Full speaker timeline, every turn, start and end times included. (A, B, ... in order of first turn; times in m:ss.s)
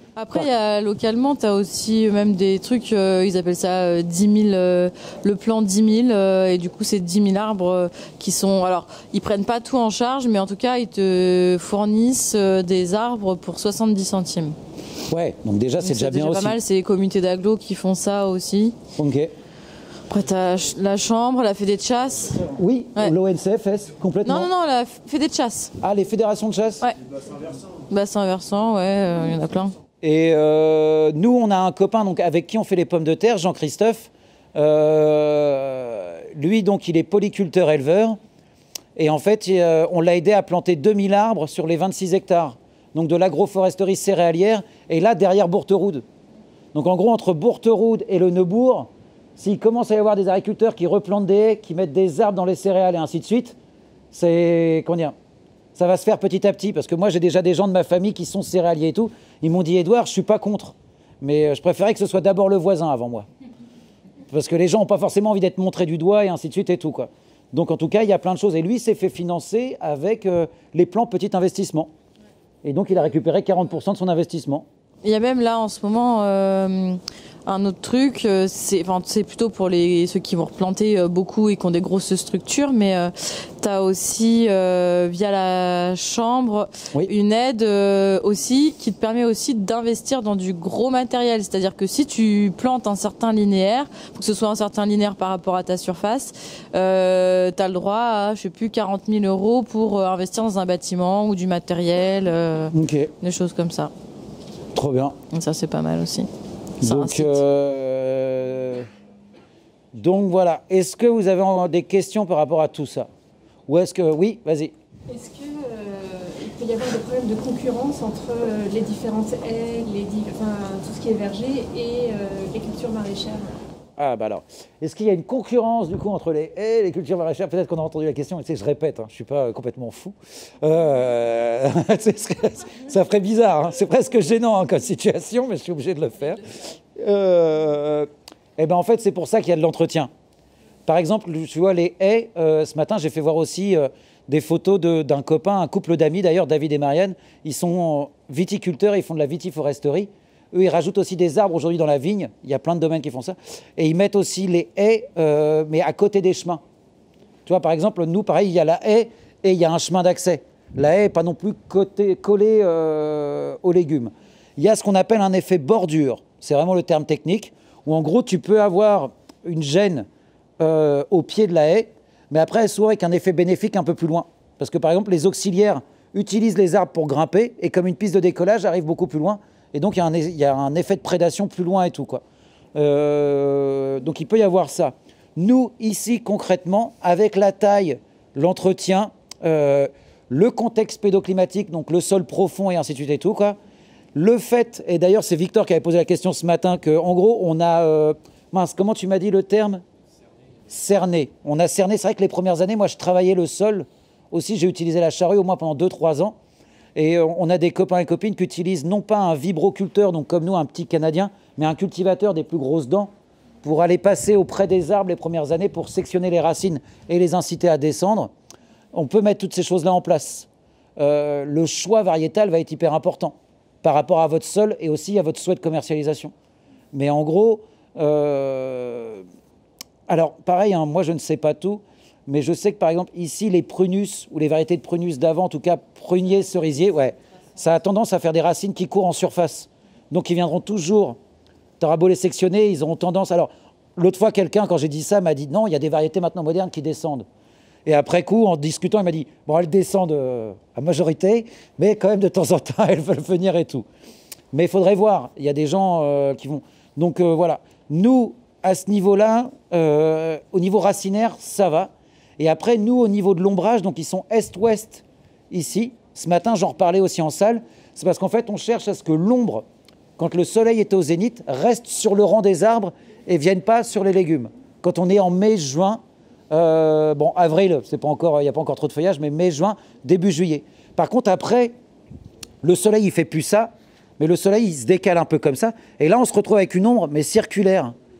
0:00.2-0:14.6 A
0:15.1-0:16.6 B
0:15.8-0:18.8 A
0:19.0-0:19.3 B
0:20.1-0:23.1 A
0:22.6-0:24.5 B
0:24.2-0:25.8 A
0:25.8-0:26.9 B
0:27.9-0:29.8 A
0:30.0-0:38.2 B
0:39.0-0:46.0 B
0:46.7-0:53.6 B
0:54.1-0:55.2 B
0:55.8-1:03.3 B
1:04.3-1:11.9 B
1:12.6-1:14.7 B
1:15.0-1:43.9 A
1:42.7-1:43.1 B
1:44.8-1:45.2 B
1:45.3-1:46.3 A
1:46.8-1:48.9 B
1:46.8-1:47.4 A
1:49.9-1:53.1 B
1:53.7-1:54.7 B
1:55.1-2:03.6 C
2:04.0-2:20.1 B
2:20.9-2:36.6 B
2:37.5-2:50.1 B
2:50.6-3:02.2 B
3:02.8-3:13.6 B
3:14.2-3:19.8 B
3:20.7-3:26.4 B
3:27.0-3:33.1 B
3:33.6-3:38.3 B
3:38.9-3:46.3 B
3:46.9-3:49.3 B
3:50.1-4:01.2 B
4:01.8-4:07.3 B
4:07.8-4:13.9 B
4:14.5-4:29.6 B
4:30.2-4:41.7 B
4:42.6-4:47.9 B